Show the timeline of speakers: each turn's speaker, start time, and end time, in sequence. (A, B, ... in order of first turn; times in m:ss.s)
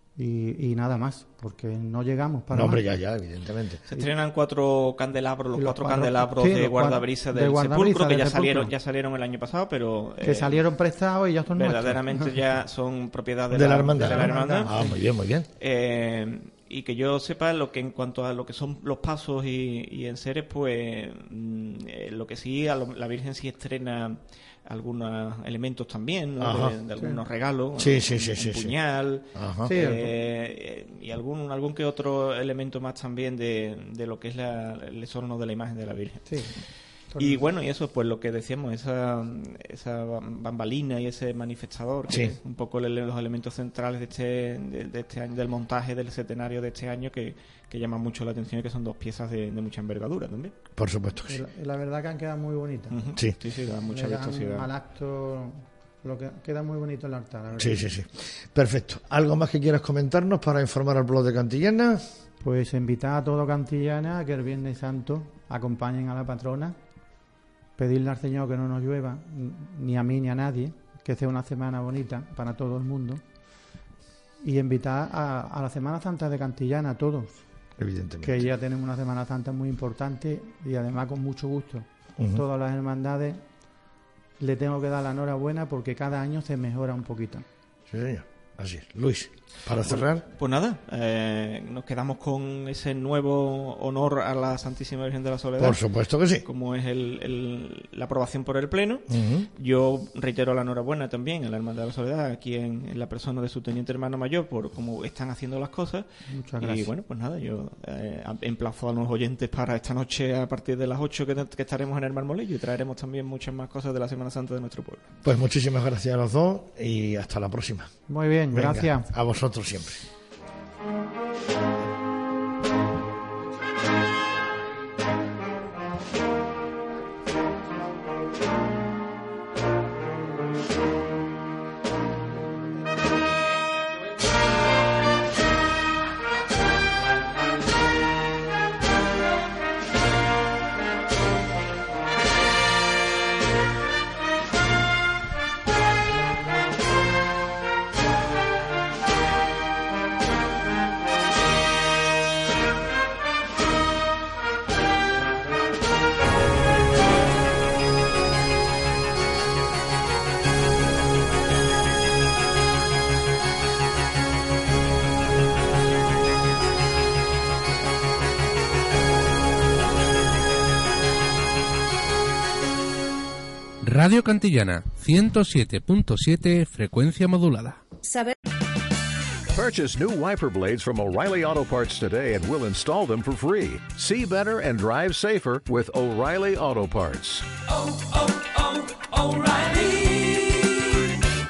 0:00.2-0:02.8 A
0:02.5-0:03.8 B
0:03.9-0:10.6 C
0:05.5-0:08.7 A
0:10.2-0:12.4 A
0:11.5-0:14.8 C
0:13.5-0:15.5 B
0:14.0-0:15.0 A
0:15.6-0:36.3 C
0:26.4-0:26.7 B
0:27.8-0:28.7 B
0:29.3-0:29.7 B
0:29.6-0:30.1 A
0:36.2-0:36.5 A
0:37.1-0:37.5 A
0:37.2-0:50.5 C
0:42.1-0:42.3 B
0:50.8-0:51.4 B
0:51.3-0:53.0 A
0:52.9-0:54.7 C
0:53.8-0:57.9 A
0:57.6-1:02.0 B
1:02.4-1:06.8 A
1:07.8-1:13.2 A
1:14.4-1:17.4 A
1:17.8-1:18.5 B
1:18.2-1:23.4 A
1:24.4-1:27.4 A
1:27.9-1:30.2 B
1:29.8-1:35.8 C
1:35.6-1:36.4 B
1:36.4-1:46.0 C
1:39.1-1:39.5 B
1:46.3-1:46.9 A
1:46.6-1:55.0 C
1:55.2-1:57.9 B
1:58.1-1:59.1 A
1:58.5-2:00.0 B
2:53.9-2:57.8 D
2:59.5-3:07.5 E
3:08.1-3:10.7 E